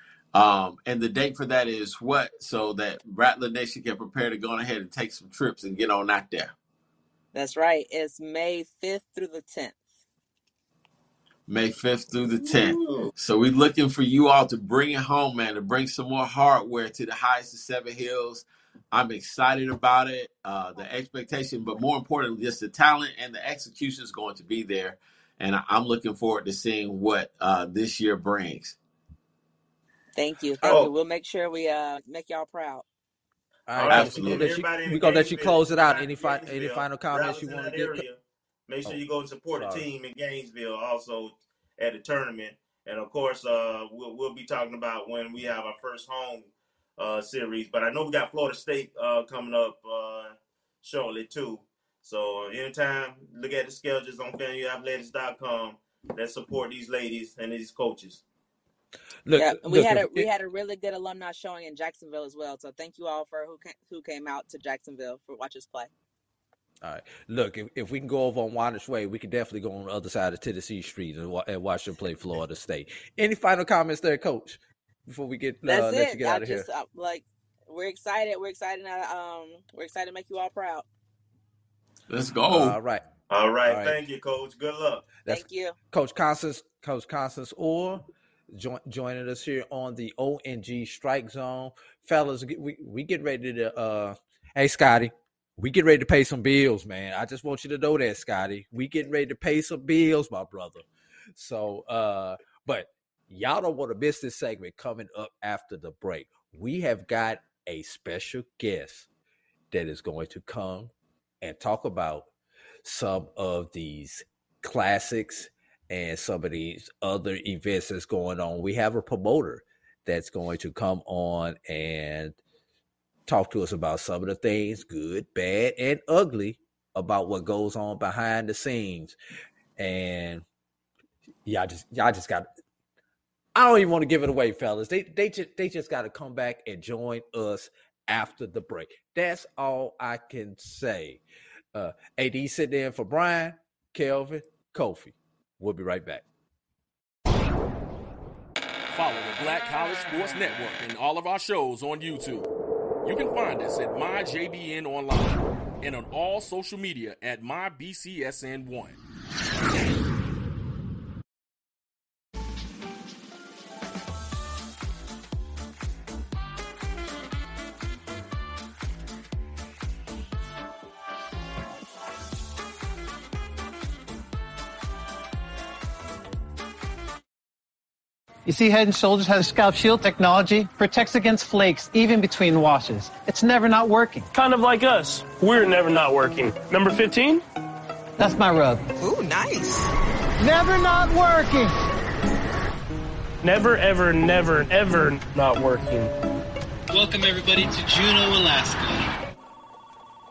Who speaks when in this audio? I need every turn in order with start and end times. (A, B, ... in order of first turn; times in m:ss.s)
0:00.3-0:06.5 A
0:07.3-0:09.8 B
0:11.5-0:28.8 A
0:12.5-0:13.1 C
0:30.1-0:32.8 B
0:30.6-0:30.9 C
0:33.7-0:38.0 D
0:33.8-0:58.2 C
0:33.9-0:34.5 A
0:39.5-0:39.8 D
0:59.2-1:00.3 D
0:59.4-1:05.9 B
1:06.8-1:16.6 D
1:15.6-1:20.8 B
1:22.1-1:22.8 A
1:22.5-1:23.0 D
1:23.3-1:25.1 C
1:23.6-1:24.0 D
1:25.2-1:40.8 D
1:25.3-1:25.8 B
1:41.4-1:49.1 D
1:49.7-1:50.9 D
1:51.4-1:52.3 D
1:52.8-2:02.4 D
2:03.3-2:09.2 D
2:09.8-2:10.4 D
2:11.4-2:12.5 D
2:13.5-2:21.2 D
2:21.7-2:26.2 D
2:28.9-2:32.5 E
2:33.0-2:39.0 E
2:58.4-3:04.3 F
3:04.3-3:07.4 G
3:08.2-3:08.9 F
3:09.0-3:09.8 B
3:10.4-3:11.7 F
3:13.4-3:16.1 G
3:16.9-3:19.1 H